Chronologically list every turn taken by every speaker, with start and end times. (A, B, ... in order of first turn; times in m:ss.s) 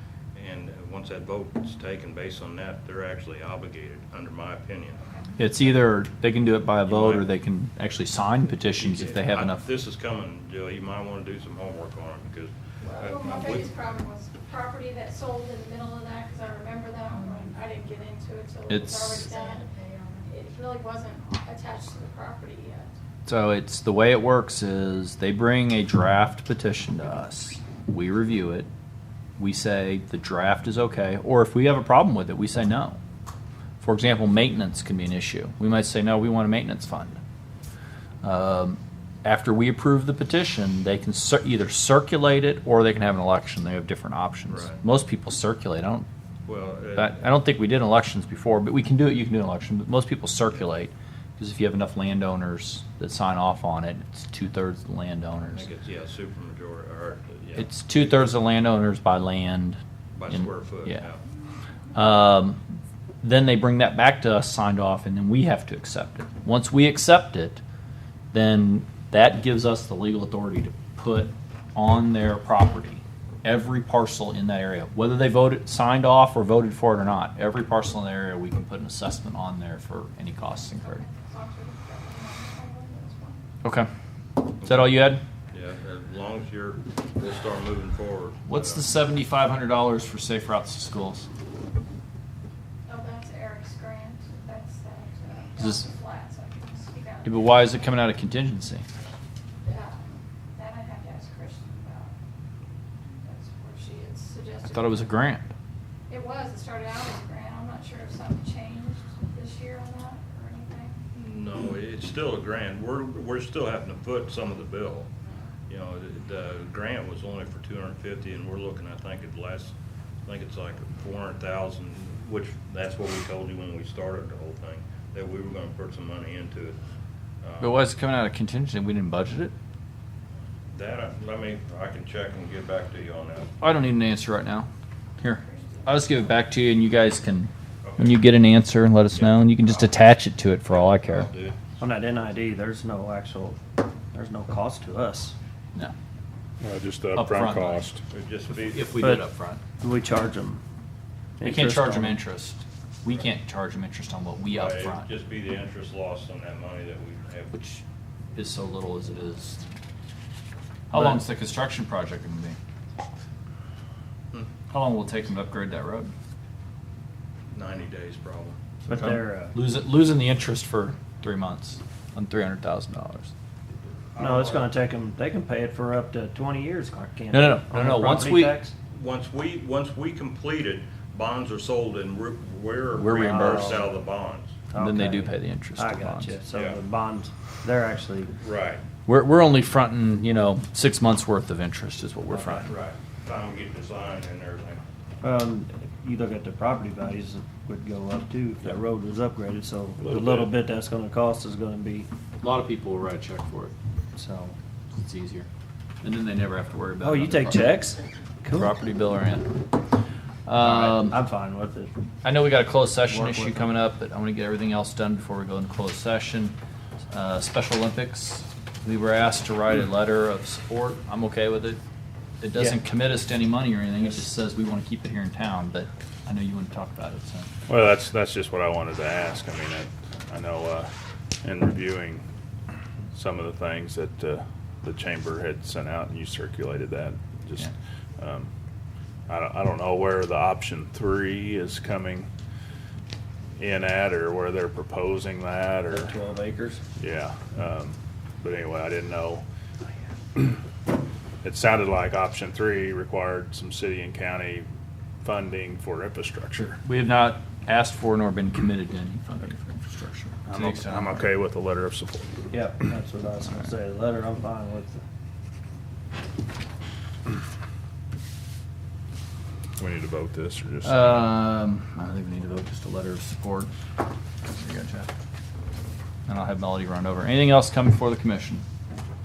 0:00.3-0:05.0 A
0:05.4-0:09.6 B
0:06.8-0:07.3 A
0:08.8-0:13.7 A
0:12.8-0:19.7 C
0:18.7-0:19.3 B
0:20.2-0:22.9 C
0:23.2-0:28.7 B
0:29.4-0:33.0 B
0:33.8-0:37.2 B
0:38.2-0:46.0 B
0:44.5-0:44.8 A
0:46.4-0:47.2 A
0:47.0-0:55.7 B
0:55.4-0:57.8 A
0:57.6-1:01.0 B
1:00.1-1:01.2 A
1:01.9-1:02.6 B
1:03.2-1:07.6 B
1:08.3-1:21.0 B
1:20.8-1:23.4 C
1:23.6-1:23.9 B
1:24.4-1:25.2 B
1:24.6-1:25.0 A
1:25.5-1:28.8 A
1:28.5-1:31.2 B
1:32.9-1:37.9 C
1:35.6-1:35.8 B
1:37.2-1:38.8 B
1:39.6-1:42.1 C
1:43.1-1:45.1 C
1:44.7-1:45.5 B
1:46.1-1:51.0 C
1:51.1-1:55.1 A
1:55.7-1:59.7 A
2:00.2-2:06.8 A
2:07.4-2:07.8 A
2:07.6-2:09.5 B
2:10.7-2:13.5 A
2:13.6-2:14.7 B
2:15.2-2:21.3 B
2:15.4-2:16.1 C
2:17.8-2:18.2 A
2:19.1-2:19.9 A
2:20.7-2:21.6 A
2:21.8-2:23.6 D
2:24.1-2:25.3 D
2:26.6-2:28.0 E
2:27.1-2:27.9 B
2:28.1-2:29.0 A
2:28.5-2:29.6 B
2:29.0-2:29.2 D
2:29.8-2:30.6 D
2:31.4-2:32.2 D
2:31.4-2:35.1 B
2:34.5-2:37.6 A
2:38.4-2:39.6 B
2:40.9-2:42.6 B
2:40.9-2:41.2 D
2:44.7-2:46.1 B
2:47.5-2:48.6 A
2:48.8-2:49.5 D
2:48.9-2:53.3 B
2:54.1-2:54.7 A
2:54.2-2:58.7 D
2:57.3-2:58.6 B
2:58.9-3:04.6 A
3:02.9-3:03.8 B
3:03.2-3:03.9 D
3:04.7-3:08.3 D
3:04.8-3:06.4 B
3:06.5-3:06.8 A
3:08.4-3:08.8 A
3:09.0-3:12.7 B
3:12.6-3:14.8 A
3:15.2-3:22.1 D
3:20.0-3:20.4 E
3:22.4-3:23.7 B
3:24.2-3:24.6 D
3:24.9-3:25.5 B
3:26.0-3:27.7 B
3:27.0-3:28.7 D
3:28.5-3:29.5 B
3:30.4-3:31.2 B
3:30.6-3:31.9 D
3:32.2-3:36.5 B
3:33.1-3:33.7 D
3:37.1-3:41.8 B
3:42.4-3:47.5 B
3:47.7-3:50.9 E
3:51.4-3:52.2 E
3:53.1-3:58.5 E
3:59.3-4:02.3 E
4:03.6-4:06.1 E
4:05.9-4:06.8 D
4:07.0-4:09.4 E
4:11.4-4:14.6 E
4:15.2-4:16.8 E
4:16.8-4:21.2 B
4:20.5-4:22.4 E
4:22.5-4:25.0 D
4:29.8-4:31.2 E
4:30.8-4:33.7 B
4:34.5-4:35.1 B
4:36.3-4:38.6 B